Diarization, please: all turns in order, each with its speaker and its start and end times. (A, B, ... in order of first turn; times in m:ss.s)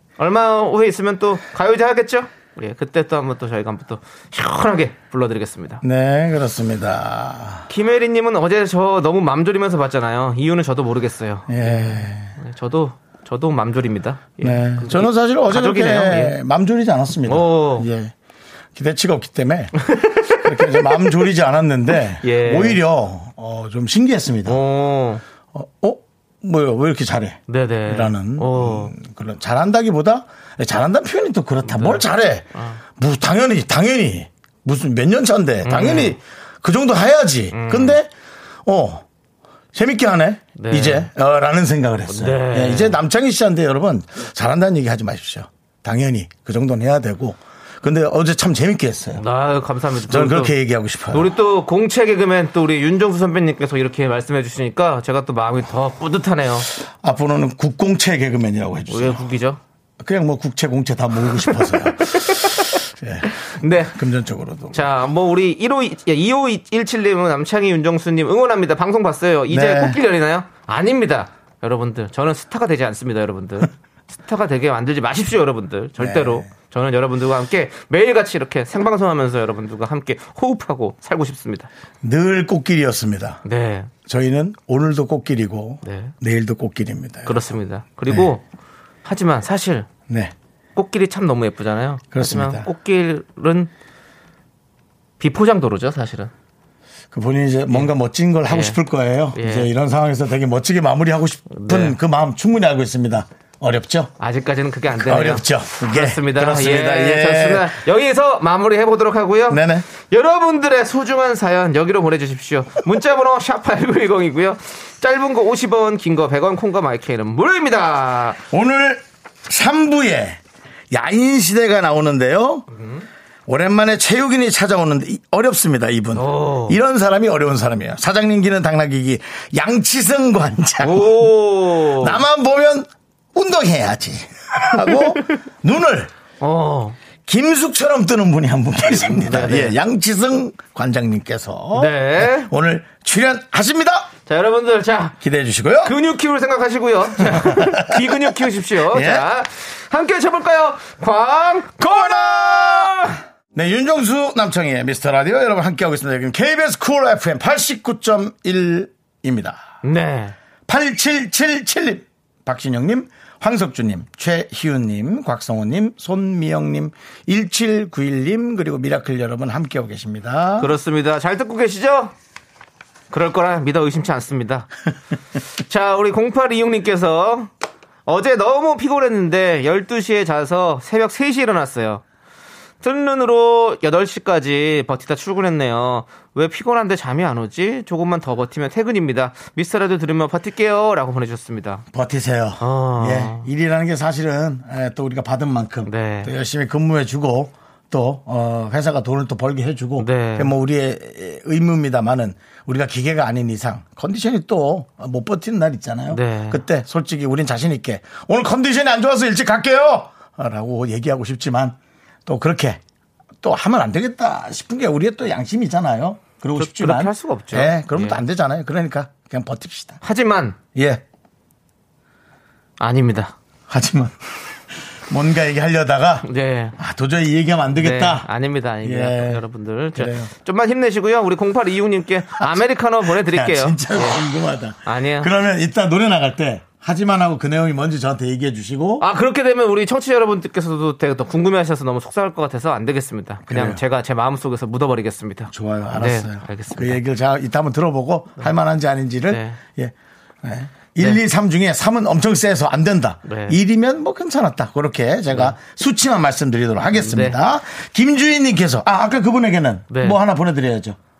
0:00.2-0:05.8 A
0:05.8-0:07.7 B
0:07.7-0:16.4 A
0:11.5-0:12.4 B
0:14.4-0:18.1 B
0:17.3-0:17.9 A
0:18.7-0:19.7 B
0:19.8-0:21.1 A
0:20.4-0:24.6 B
0:22.2-0:22.8 A
0:24.4-0:25.2 A
0:25.5-0:38.1 B
0:27.5-0:28.9 A
0:31.6-0:32.0 A
0:35.6-0:36.2 A
0:37.5-0:38.0 A
0:38.6-0:39.0 B
0:39.7-0:49.2 B
0:40.6-0:41.1 A
0:42.1-0:43.0 A
0:49.2-0:50.5 A
0:50.0-0:51.3 B
0:51.1-0:56.7 A
0:57.0-0:59.3 B
0:58.9-0:59.6 A
1:00.0-1:03.3 B
1:02.0-1:02.8 A
1:03.4-1:04.0 A
1:03.8-1:05.0 B
1:04.7-1:21.7 A
1:09.5-1:10.0 B
1:16.0-1:16.5 B
1:22.0-1:23.4 B
1:23.4-1:23.9 A
1:24.0-1:27.5 B
1:25.8-1:26.1 A
1:27.2-1:28.4 A
1:29.0-1:29.9 A
1:30.1-1:30.3 B
1:30.8-1:33.7 A
1:32.1-1:32.7 B
1:35.2-1:36.3 A
1:37.1-1:44.1 B
1:38.5-1:38.8 A
1:39.3-1:39.7 A
1:41.5-1:42.0 A
1:44.2-1:58.4 A
1:44.9-1:47.8 B
1:49.5-1:49.8 B
1:58.5-2:00.4 B
2:00.9-2:02.7 B
2:02.7-2:03.1 A
2:03.5-2:16.1 B
2:06.1-2:06.8 A
2:10.8-2:12.2 A
2:16.4-2:17.0 A
2:17.2-2:24.1 B
2:19.1-2:19.8 A
2:21.7-2:22.5 A
2:24.3-2:25.2 A
2:25.2-2:25.9 B
2:25.8-2:33.2 A
2:27.2-2:29.3 B
2:31.8-2:39.6 B
2:39.8-2:40.3 A
2:40.7-2:50.7 B
2:50.6-2:52.1 A
2:53.1-2:54.7 A
2:55.6-2:57.5 A
2:58.0-3:02.0 A
3:02.8-3:11.8 A
3:11.9-3:32.8 B
3:12.6-3:13.4 A
3:15.8-3:16.3 A
3:20.0-3:20.5 A
3:26.1-3:26.6 A
3:33.4-3:40.0 B
3:36.6-3:38.2 A
3:40.0-3:40.6 A
3:40.7-3:41.0 B
3:42.8-3:43.3 A
3:43.7-3:44.2 B
3:45.1-3:46.3 B
3:46.2-3:46.8 A
3:46.8-3:48.3 B
3:47.7-3:54.2 A
3:48.8-3:49.4 B
3:49.9-3:50.3 B
3:52.4-3:59.0 B
3:54.8-3:55.3 A
3:59.0-4:07.0 A
4:03.5-4:03.8 B
4:05.5-4:21.0 B
4:09.3-4:09.6 A
4:13.3-4:13.6 A
4:16.9-4:17.4 A
4:19.9-4:20.2 A